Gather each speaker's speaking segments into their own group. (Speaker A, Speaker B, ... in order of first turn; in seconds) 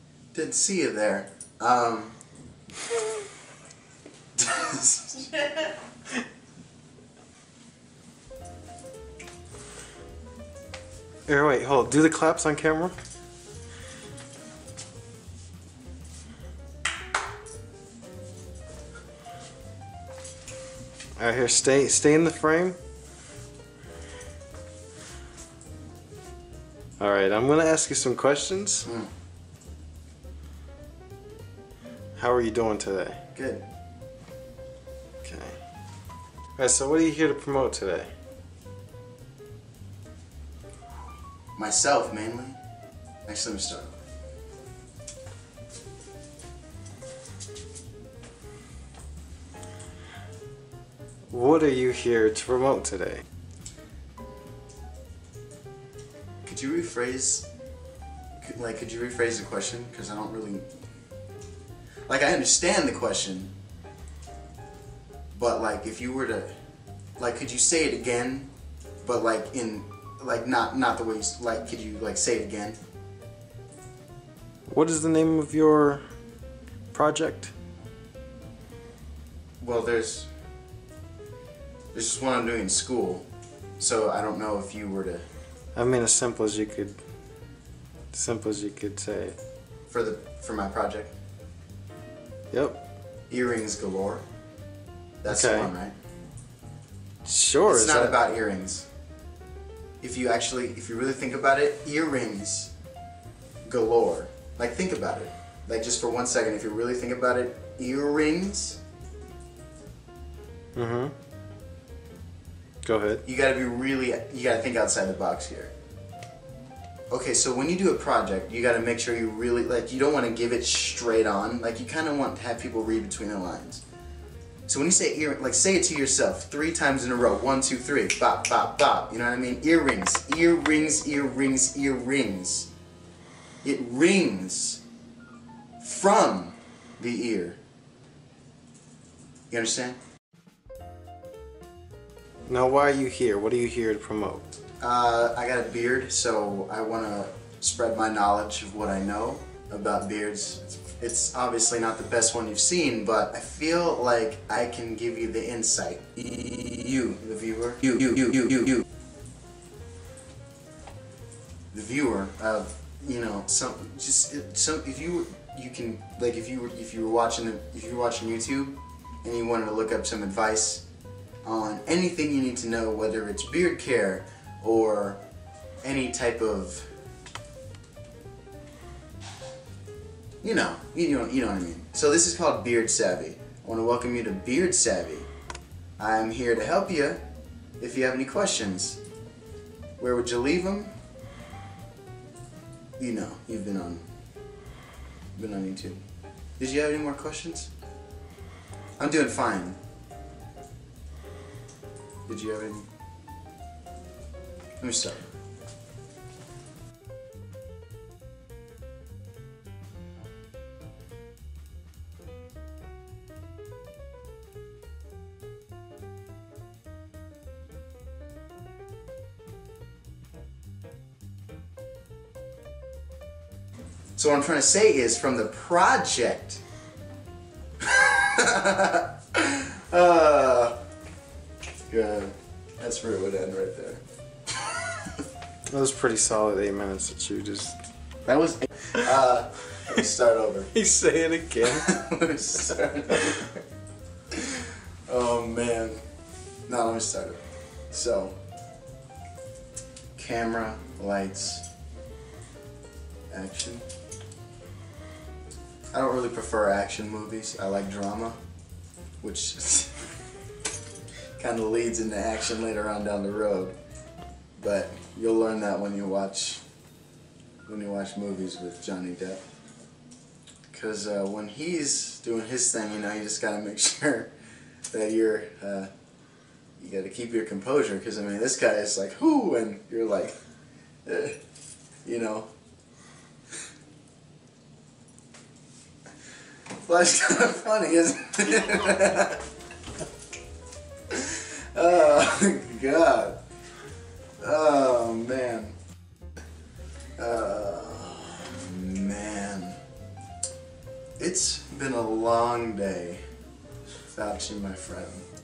Speaker A: 0.3-2.2, 4.4-5.5, 33.3-33.6, 41.6-42.6, 43.3-44.0, 56.5-57.5, 58.4-60.7, 62.1-63.5, 65.3-66.5, 67.2-68.5, 69.0-72.8, 79.6-80.3, 81.9-83.3, 83.8-85.2, 89.9-91.2, 93.3-94.2, 95.2-96.0, 97.7-98.9, 100.0-102.7, 103.7-108.8, 113.2-115.7, 117.1-123.8, 124.7-132.7, 133.6-134.8, 135.8-137.6, 139.5-140.0, 144.8-158.9, 161.7-170.8, 171.4-175.2, 175.8-176.9, 180.4-185.3, 186.0-187.2, 187.8-189.0, 190.0-190.9, 193.0-194.1, 195.4-196.0, 196.6-197.7, 199.0-199.8, 202.3-202.9, 204.8-205.2, 224.2-226.6, 227.8-230.8, 231.9-234.0, 238.3-240.7, 241.7-243.5, 244.3-246.0, 246.7-248.4, 250.2-251.7, 253.3-253.8, 255.9-258.4, 259.2-259.9, 261.4-263.8, 264.6-266.6, 267.7-269.4, 270.7-274.3, 274.9-275.9, 276.8-280.4, 281.1-281.4, 282.1-282.5, 286.9-289.4, 291.1-293.4, 294.4-295.8, 297.2-299.8, 301.2-303.2, 304.1-305.3
Speaker B: 11.3-13.0, 21.2-22.8, 27.0-28.9, 32.2-33.2, 35.2-35.6, 36.6-38.1, 51.3-53.2, 74.7-76.0, 76.9-77.5, 85.8-87.0, 88.1-89.4, 92.5-92.8, 95.3-95.7, 97.2-98.2, 110.8-111.1, 112.8-113.2, 142.5-144.5, 235.7-237.8, 240.7-242.0